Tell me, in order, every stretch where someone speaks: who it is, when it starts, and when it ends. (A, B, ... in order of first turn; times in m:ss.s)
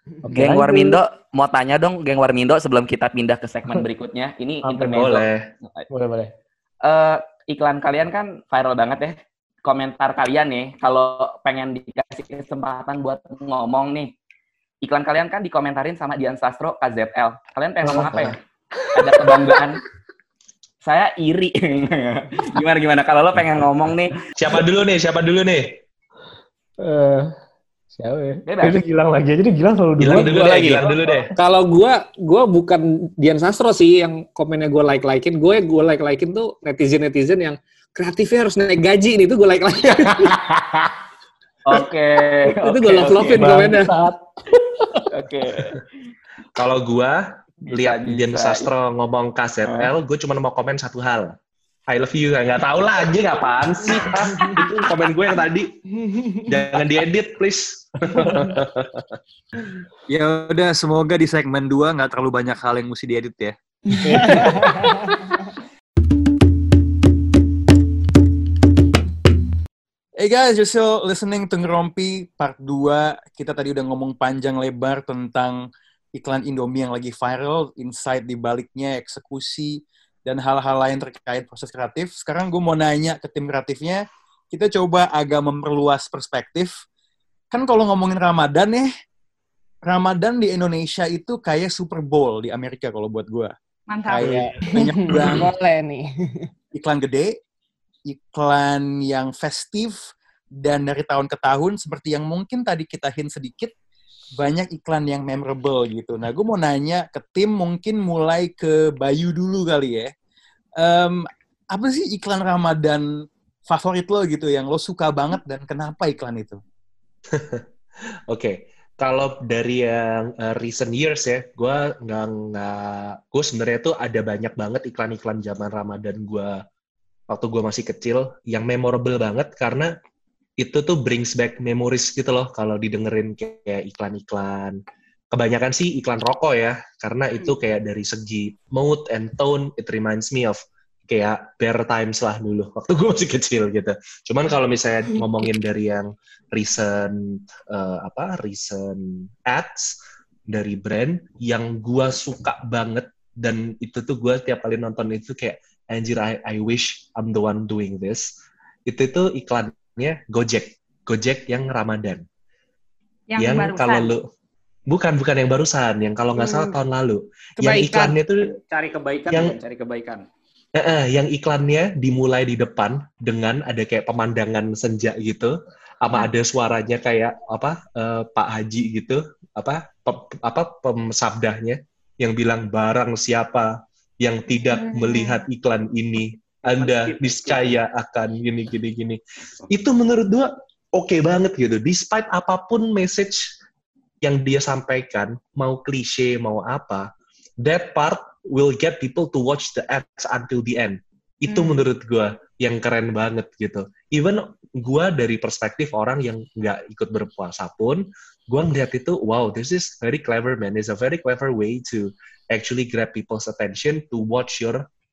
0:00.2-0:01.0 A
0:00.3-0:05.8 B
0:04.6-0:05.1 A
0:04.9-0:05.4 C
0:05.9-0:06.3 A
0:06.8-0:14.1 B
0:14.8-0:18.4 B
0:18.0-0:18.3 C
0:19.0-0:19.8 B
0:20.8-0:24.1 B
0:24.4-0:25.8 C
0:26.8-0:27.3 A
0:27.9-0:30.3 A
0:28.5-0:28.8 B
0:30.0-0:31.3 C
0:30.2-0:30.8 D
0:31.4-0:40.9 D
0:41.7-0:43.6 B
0:42.5-0:43.9 D
0:43.3-0:45.1 A
0:45.1-0:45.9 B
0:46.6-0:51.3 C
0:47.7-0:48.7 B
0:49.6-0:49.9 B
0:51.9-0:55.7 C
0:56.0-0:56.6 E
0:56.5-0:59.2 C
0:58.2-0:58.6 A
1:00.1-1:03.6 F
1:03.9-1:05.2 E
1:04.1-1:04.6 A
1:04.2-1:04.6 F
1:10.2-1:15.6 F
1:16.2-1:26.7 F
1:27.5-1:28.9 F
1:29.9-1:33.5 F
1:33.9-1:34.4 G
1:34.1-1:35.5 F
1:34.7-1:36.5 E
1:36.7-1:37.3 F
1:38.1-1:40.0 F
1:40.6-1:43.7 F
1:44.4-1:50.1 F
1:50.8-1:53.1 F
1:53.7-1:56.6 F
1:57.3-1:57.6 C
1:58.3-2:06.6 C
2:07.3-2:09.9 C
2:10.6-2:14.8 C
2:15.3-2:30.0 C
2:30.5-2:38.3 C
2:38.9-2:42.2 C
2:43.3-2:44.1 G
2:43.4-2:44.2 C
2:44.9-2:48.5 C
2:47.6-2:48.2 E
2:48.6-2:50.3 D
2:49.3-2:49.6 C
2:50.8-3:13.5 C
3:04.7-3:05.4 G
3:06.7-3:07.8 D
3:14.2-3:17.1 C
3:17.6-3:34.9 C
3:21.5-3:21.8 G